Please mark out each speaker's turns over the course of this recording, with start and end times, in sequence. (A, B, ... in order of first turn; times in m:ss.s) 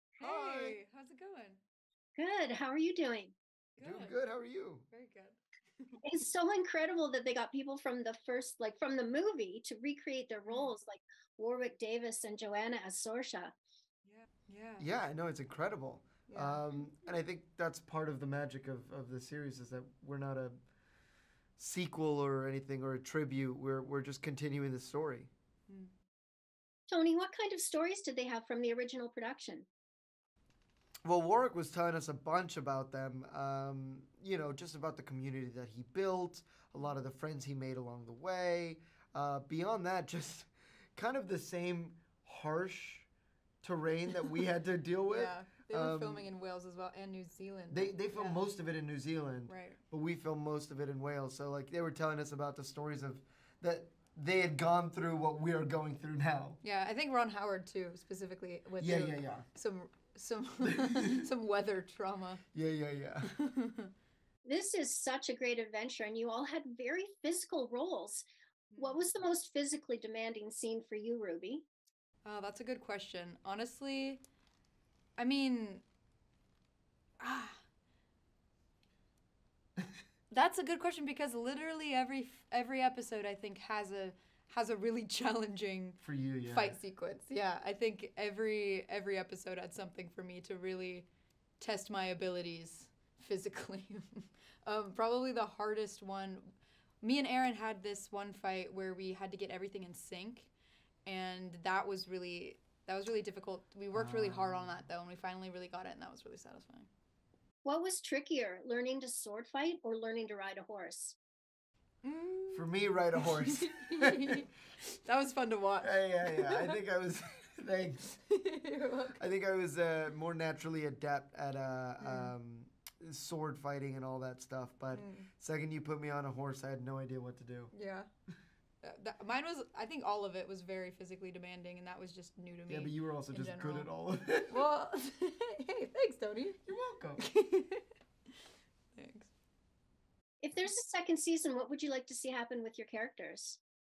0:00.2-0:01.6 A
0:00.2-0:00.8 B
0:02.2-0:03.3 C
0:03.8-0:04.2 A
0:03.8-0:04.8 B
0:04.9-0:06.0 A
0:06.0-0:13.5 C
0:10.5-0:10.8 A
0:14.0-0:14.9 A
0:14.8-0:20.6 B
0:16.3-0:16.8 A
0:21.6-0:25.3 B
0:26.9-0:29.7 C
0:31.0-0:43.1 B
0:43.6-0:46.3 B
0:45.1-0:48.4 A
0:47.7-0:56.6 B
0:49.5-0:49.8 A
0:56.6-1:02.4 A
0:58.8-0:59.5 B
1:00.6-1:01.2 B
1:02.5-1:03.3 B
1:03.2-1:03.9 A
1:04.4-1:08.2 C
1:08.7-1:09.1 A
1:08.8-1:11.6 C
1:12.2-1:14.2 A
1:15.2-1:15.8 A
1:17.2-1:17.6 A
1:20.3-1:31.1 A
1:26.0-1:26.8 B
1:31.6-1:36.5 A
1:37.0-1:40.5 A
1:41.0-1:46.9 A
1:43.9-1:44.8 B
1:47.6-1:51.2 C
1:52.0-1:56.8 A
1:52.5-1:54.4 B
1:55.8-1:58.1 B
1:58.3-1:59.2 A
1:59.2-2:07.7 B
2:02.0-2:02.3 A
2:04.9-2:05.3 A
2:07.7-2:08.1 A
2:08.8-2:13.9 A
2:12.7-2:14.7 B
2:14.5-2:16.6 A
2:16.7-2:17.2 B
2:17.2-2:17.8 A
2:18.9-2:19.3 A
2:20.4-2:23.6 C